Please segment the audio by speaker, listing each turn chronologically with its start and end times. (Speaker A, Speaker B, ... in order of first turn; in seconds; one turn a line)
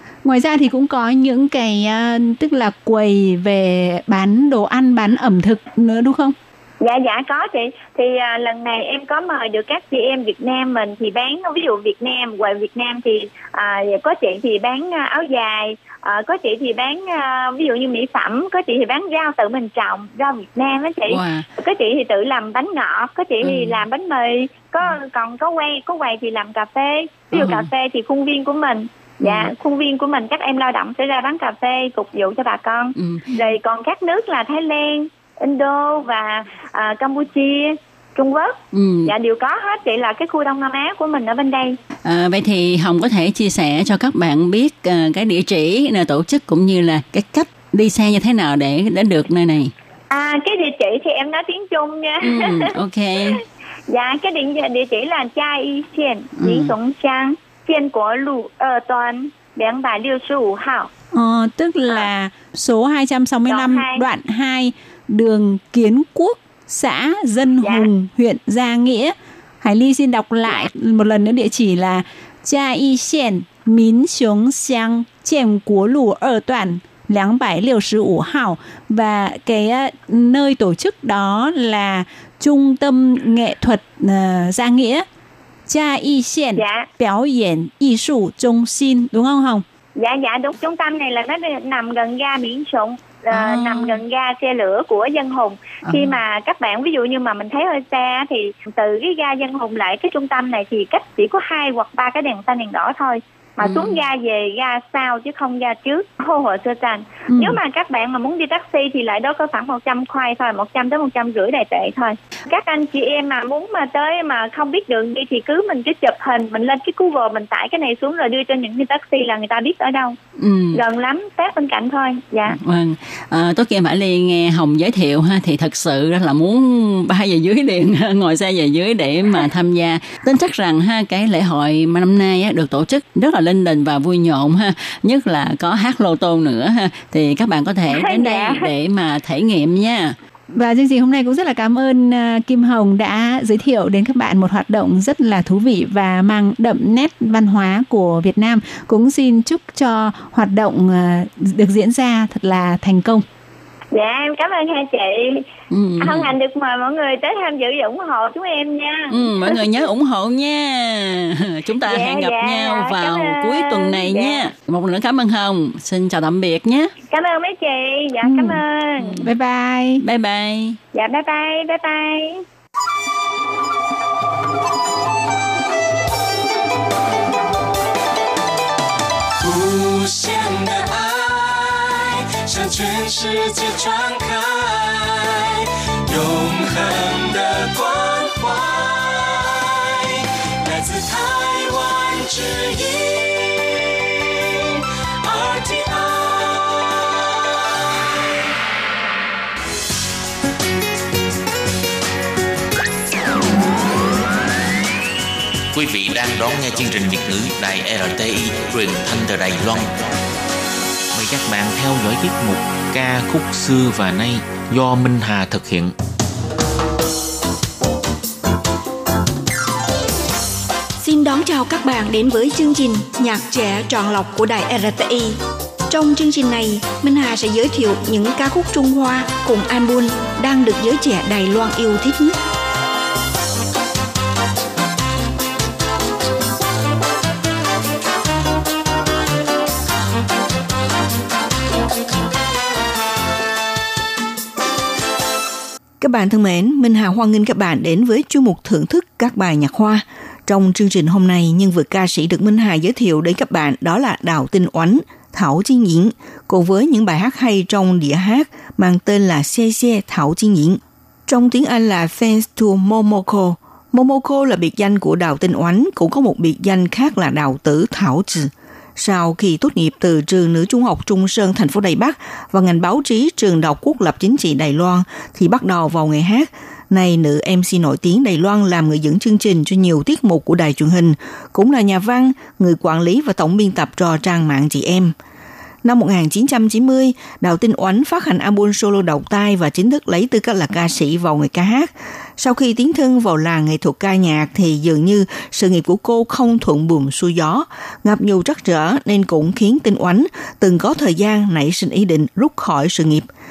Speaker A: 0.2-6.3
Speaker B: 6.8-41.8
Speaker C: 21.1-21.4
Speaker C: 23.4-23.8
Speaker C: 27.3-27.7
Speaker C: 29.2-29.5
Speaker C: 33.0-33.5
Speaker C: 38.7-39.1
Speaker C: 42.0-49.7
Speaker B: 50.1-52.6
Speaker C: 52.2-53.4
Speaker B: 53.9-60.9
Speaker C: 56.4-56.7
Speaker A: 61.1-85.0
Speaker B: 63.5-64.0
Speaker B: 67.6-67.9
Speaker A: 85.7-89.6
Speaker B: 86.5-86.9
Speaker B: 90.0-120.2
Speaker A: 93.5-94.0
Speaker C: 103.6-104.0
Speaker A: 107.3-107.6
Speaker C: 120.4-120.8
Speaker B: 120.7-122.5
Speaker C: 122.5-140.2
Speaker B: 137.9-138.6
Speaker A: 140.5-153.2
Speaker B: 153.9-155.4
Speaker C: 155.7-156.3
Speaker B: 156.0-159.6
Speaker C: 159.1-166.9
Speaker B: 161.8-164.5
Speaker B: 167.1-169.2
Speaker A: 168.2-168.6
Speaker C: 169.0-169.3
Speaker A: 169.2-170.0
Speaker C: 170.0-170.8
Speaker B: 170.9-172.4
Speaker D: 179.4-198.1
Speaker E: 205.7-209.9
Speaker E: 211.1-215.9
Speaker F: 221.0-232.4
Speaker F: 246.0-285.1
Speaker F: 285.8-303.3